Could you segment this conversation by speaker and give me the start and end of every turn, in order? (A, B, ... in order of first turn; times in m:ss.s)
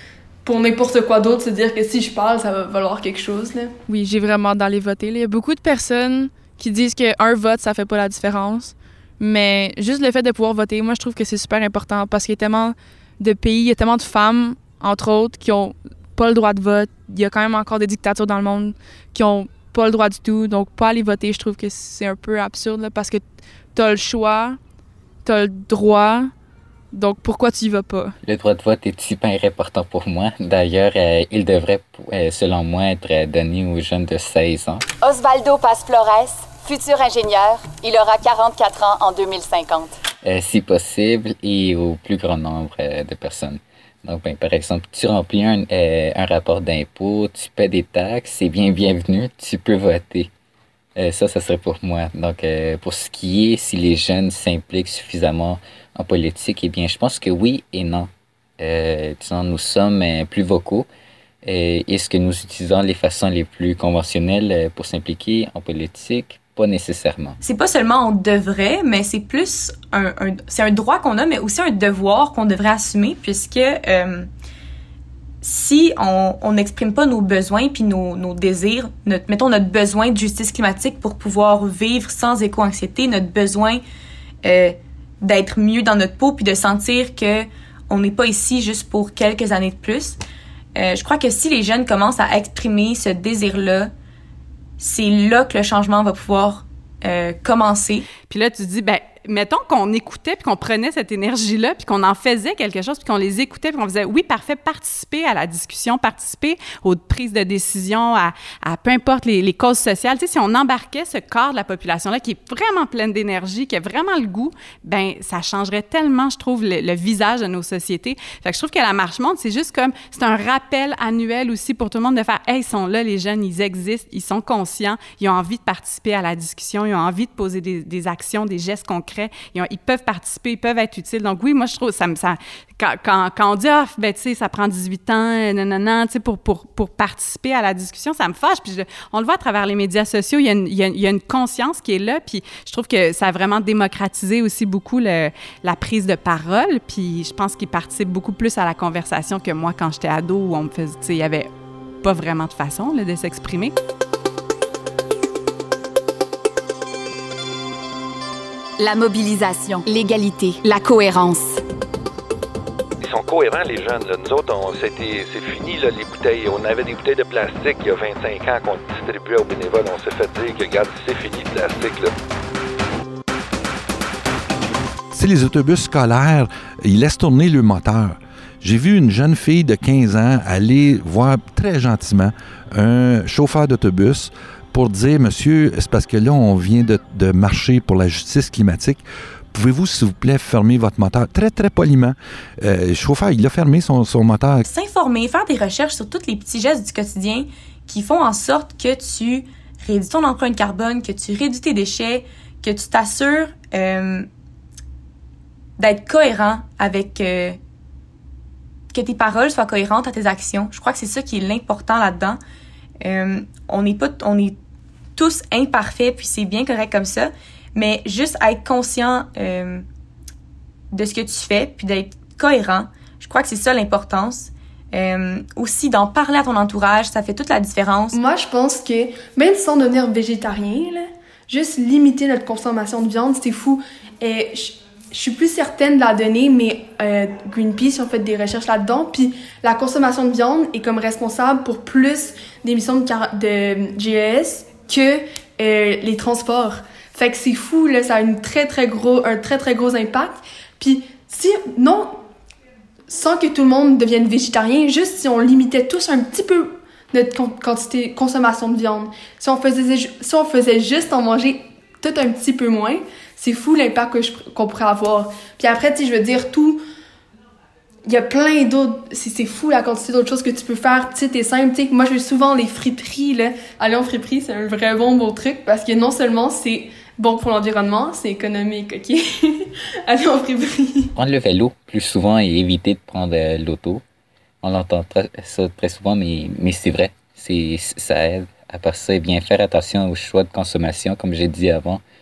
0:00.4-0:03.7 A
0:03.9-0:23.2 B
0:23.8-0:24.6 B
0:25.2-0:26.3 B
0:26.9-0:28.2 B
0:28.2-0:34.8 C
0:35.0-0:40.0 D
0:40.2-0:50.3 C
0:51.0-1:00.9 C
1:01.4-1:07.4 C
1:07.4-1:14.3 E
1:15.4-1:23.8 E
1:24.4-1:30.2 E
1:30.8-1:33.9 E
1:34.8-1:38.1 E
1:38.3-2:31.5 F
2:32.0-2:33.8 F
2:38.8-2:41.6 D
2:43.0-2:52.1 G
2:55.1-3:14.6 H
3:14.6-3:24.3 E
3:25.8-3:27.6 E
3:28.9-3:32.4 E
3:33.0-3:34.6 E
3:35.2-3:39.8 E
3:40.9-3:48.2 E
3:48.1-4:12.2 A
4:13.1-4:26.8 A
4:28.1-4:41.1 A
4:41.2-4:44.0 C
4:44.6-4:52.0 C